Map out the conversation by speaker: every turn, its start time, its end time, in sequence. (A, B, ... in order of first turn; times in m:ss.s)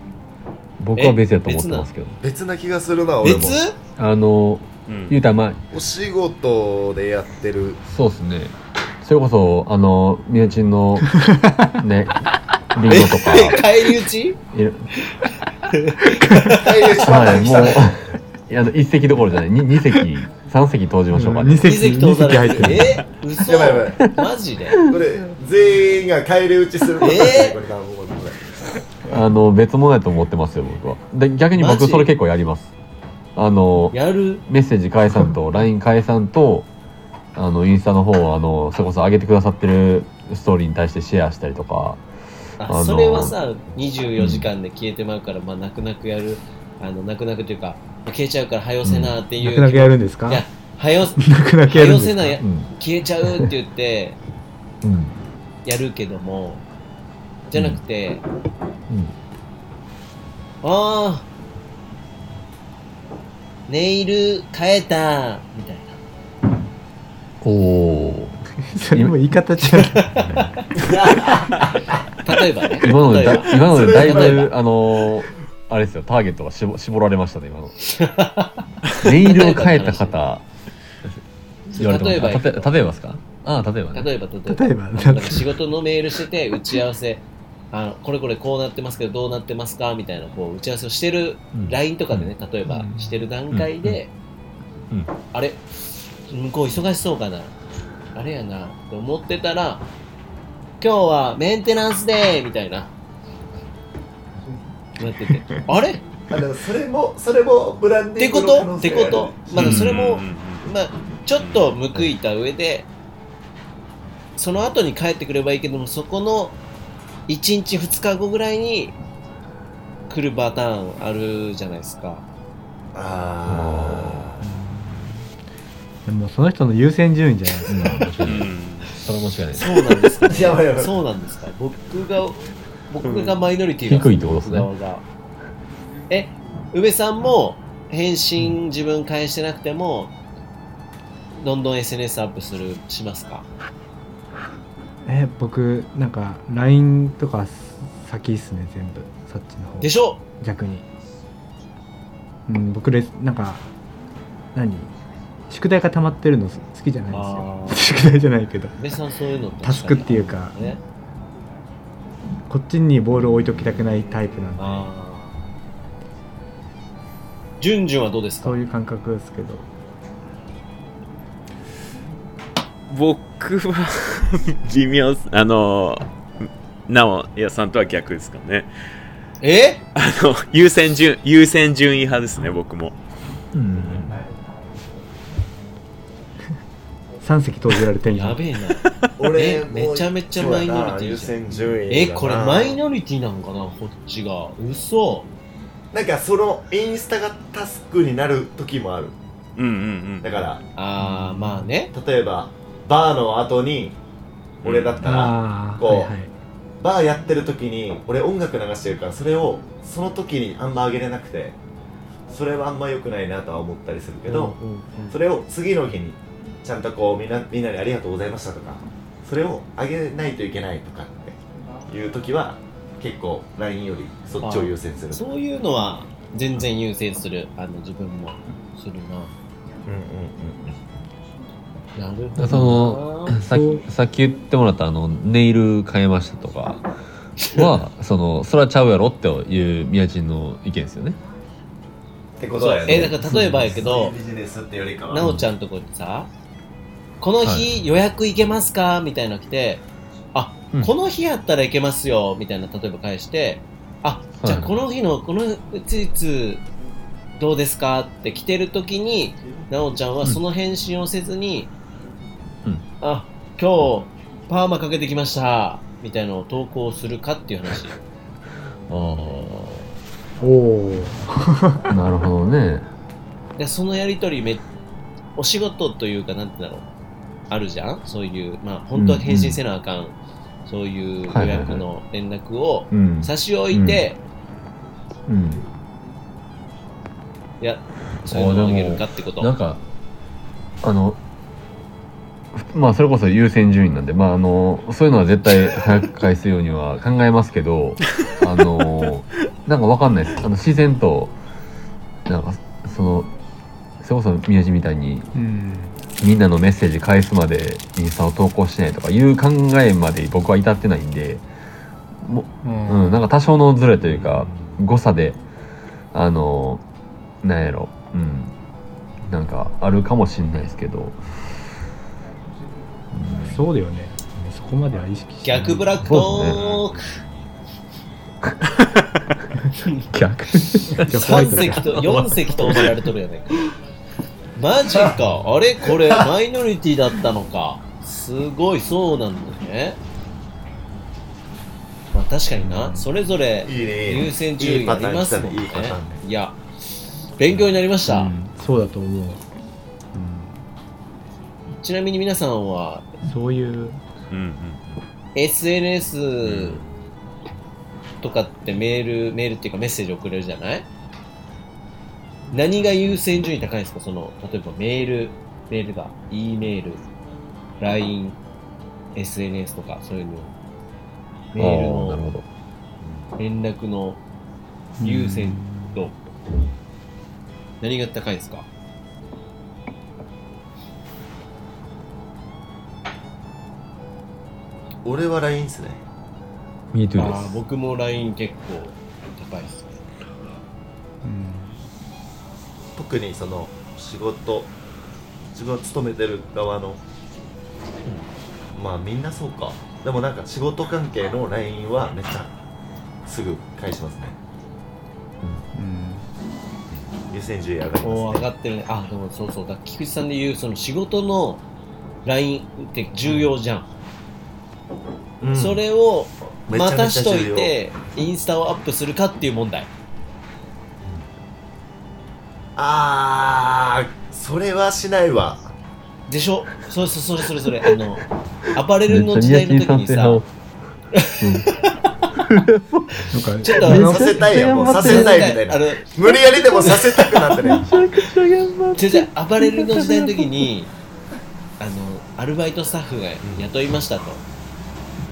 0:00.8-0:02.2 A
0:01.0-0:01.9 B
0:02.2-0:03.6 C
0:03.2-0:03.8 B
0:04.0-0:05.6 A
0:04.9-0:05.2 D
0:05.7-0:07.8 C
0:07.9-0:13.6 A
0:11.1-0:11.7 E
0:12.9-0:14.4 B
0:14.5-0:14.9 A
0:15.1-0:17.9 B
0:16.1-0:16.6 E
0:16.4-0:17.9 C
0:17.0-0:21.8 A
0:21.1-0:23.0 E
0:21.6-0:24.8 B
0:23.4-0:24.1 C
0:24.9-0:28.6 C
0:27.0-0:27.6 B
0:29.1-0:32.7 A
0:31.6-0:32.1 B
0:33.4-0:36.7 A
0:33.9-0:34.4 B
0:37.4-0:42.0 A
0:42.6-0:54.2 B
0:42.6-0:43.4 A
0:44.2-0:44.5 A
0:48.8-0:49.2 A
0:49.4-0:50.4 E
0:51.2-0:52.4 E
0:52.4-0:52.7 A
0:54.8-0:55.2 A
0:55.6-0:56.6 B
0:57.5-0:58.2 B
0:57.5-0:57.8 A
0:58.9-0:59.1 A
1:00.6-1:01.3 B
1:03.7-1:06.0 B
1:07.4-1:08.4 A
1:08.7-1:10.1 E
1:10.2-1:10.6 A
1:10.8-1:11.6 C
1:12.2-1:14.5 B
1:12.8-1:17.8 A
1:13.3-1:14.5 C
1:17.9-1:20.2 B
1:19.0-1:20.4 A
1:21.7-1:22.8 B
1:21.8-1:24.1 A
1:23.9-1:34.1 B
1:24.5-1:25.5 E
1:31.5-1:32.3 A
1:32.7-1:33.1 E
1:33.5-1:34.0 A
1:35.3-1:35.6 B
1:36.3-1:37.5 B
1:38.2-1:39.8 B
1:40.8-1:42.9 B
1:45.0-1:46.0 B
1:45.3-1:45.6 E
1:46.3-1:49.9 C
1:48.2-1:52.9 B
1:49.5-1:50.7 D
1:51.4-1:51.7 D
1:54.4-1:56.6 B
1:57.3-1:59.0 B
2:00.1-2:02.2 B
2:02.9-2:04.4 C
2:03.5-2:04.3 A
2:04.4-2:05.2 E
2:06.1-2:08.0 E
2:07.7-2:10.0 A
2:08.2-2:08.9 D
2:09.5-2:15.0 B
2:10.2-2:10.9 C
2:13.0-2:13.3 D
2:13.8-2:14.7 A
2:16.1-2:20.1 B
2:21.4-2:23.5 B
2:25.0-2:30.9 E
2:29.8-2:30.2 B
2:32.5-2:33.7 E
2:34.5-2:34.9 E
2:35.5-2:38.8 E
2:37.1-2:38.0 B
2:38.8-2:40.8 B
2:39.6-2:40.7 E
2:42.5-2:44.9 E
2:44.6-2:45.5 B
2:47.6-2:48.6 B
2:48.4-2:49.7 E
2:52.9-2:56.0 D
2:56.9-2:58.7 D
2:59.4-2:59.8 B
3:00.0-3:03.0 D
3:03.5-3:04.2 A
3:07.2-3:08.4 E
3:08.1-3:11.4 B
3:09.2-3:12.8 C
3:11.9-3:15.3 B
3:15.9-3:19.2 C
3:19.6-3:20.3 D
3:20.2-3:20.6 C
3:20.8-3:21.9 B
3:21.0-3:21.7 E
3:21.9-3:24.0 C
3:24.6-3:25.3 D
3:24.6-3:26.1 C
3:25.0-3:26.3 E
3:26.8-3:31.6 C
3:32.3-3:34.6 C
3:34.3-3:35.2 B
3:35.1-3:45.3 C
3:44.4-3:49.3 B
3:49.9-3:51.0 C
3:52.0-3:53.4 B
3:52.4-3:56.9 A
3:53.5-3:53.8 E
3:57.4-3:57.7 B
3:57.4-4:01.2 A
4:02.4-4:05.4 C
4:02.6-4:04.2 B
4:02.9-4:03.3 A
4:05.1-4:06.3 B
4:07.2-4:16.6 B
4:07.4-4:07.7 A
4:14.4-4:14.8 A
4:17.4-4:21.7 B
4:23.0-4:28.0 B
4:28.9-4:29.9 A
4:30.4-4:31.9 E
4:31.9-4:32.9 A
4:33.6-4:34.7 B
4:35.4-4:36.9 B
4:37.5-4:44.2 B
4:38.9-4:39.6 A
4:41.3-4:41.8 A
4:42.9-4:44.0 A
4:45.3-4:45.7 A
4:47.6-4:49.5 B
4:48.3-4:49.8 A
4:50.8-4:51.2 A
4:52.5-5:01.4 A
5:02.3-5:03.3 A
5:04.0-5:05.3 A
5:05.3-5:06.0 E
5:06.2-5:11.4 A
5:12.2-5:15.4 A
5:12.6-5:13.3 E
5:14.2-5:14.7 C
5:16.1-5:16.8 A
5:17.4-5:18.6 A
5:19.3-5:21.2 A
5:23.1-5:23.6 A
5:23.4-5:26.0 E
5:25.4-5:27.2 B
5:26.0-5:26.9 A
5:29.8-5:30.1 B
5:30.1-5:33.0 A
5:30.9-5:33.7 B
5:31.0-5:32.1 E
5:34.6-5:40.0 B
5:42.1-5:46.6 B
5:42.6-5:43.1 E
5:43.6-5:46.2 C
5:47.4-5:48.3 B
5:48.1-5:49.4 E
5:50.1-5:50.6 E
5:51.8-5:53.1 B
5:53.2-5:54.0 E
5:54.3-5:55.0 D
5:55.4-5:56.8 B
5:56.4-5:56.9 D
5:58.2-6:00.9 B
6:02.5-6:07.0 B
6:07.8-6:08.4 B
6:09.2-6:10.5 B
6:11.5-6:12.2 B
6:11.6-6:12.5 A
6:13.4-6:14.2 B
6:15.0-6:16.0 E
6:15.0-6:16.2 B
6:17.8-6:18.7 B
6:25.0-6:26.0 C
6:26.9-6:27.5 A
6:27.2-6:30.0 B
6:31.2-6:31.7 E
6:33.0-6:34.7 C
6:35.5-6:37.0 C
6:38.7-6:42.5 C
6:43.2-6:44.4 C
6:45.8-6:46.2 E
6:46.9-6:48.5 C
6:48.0-6:51.6 B
6:52.2-6:53.9 B
6:55.4-6:55.8 C
6:55.5-6:59.9 B
6:56.7-6:57.7 C
7:02.8-7:05.7 C
7:06.3-7:08.2 B
7:08.7-7:10.4 B
7:09.1-7:10.5 A
7:11.1-7:11.9 B
7:11.4-7:11.7 A
7:12.3-7:15.6 A
7:13.3-7:14.7 E
7:13.6-7:14.2 B
7:13.9-7:17.9 C
7:14.8-7:17.2 B
7:17.6-7:20.6 A
7:19.0-7:20.9 B
7:21.8-7:24.4 B
7:23.4-7:23.7 C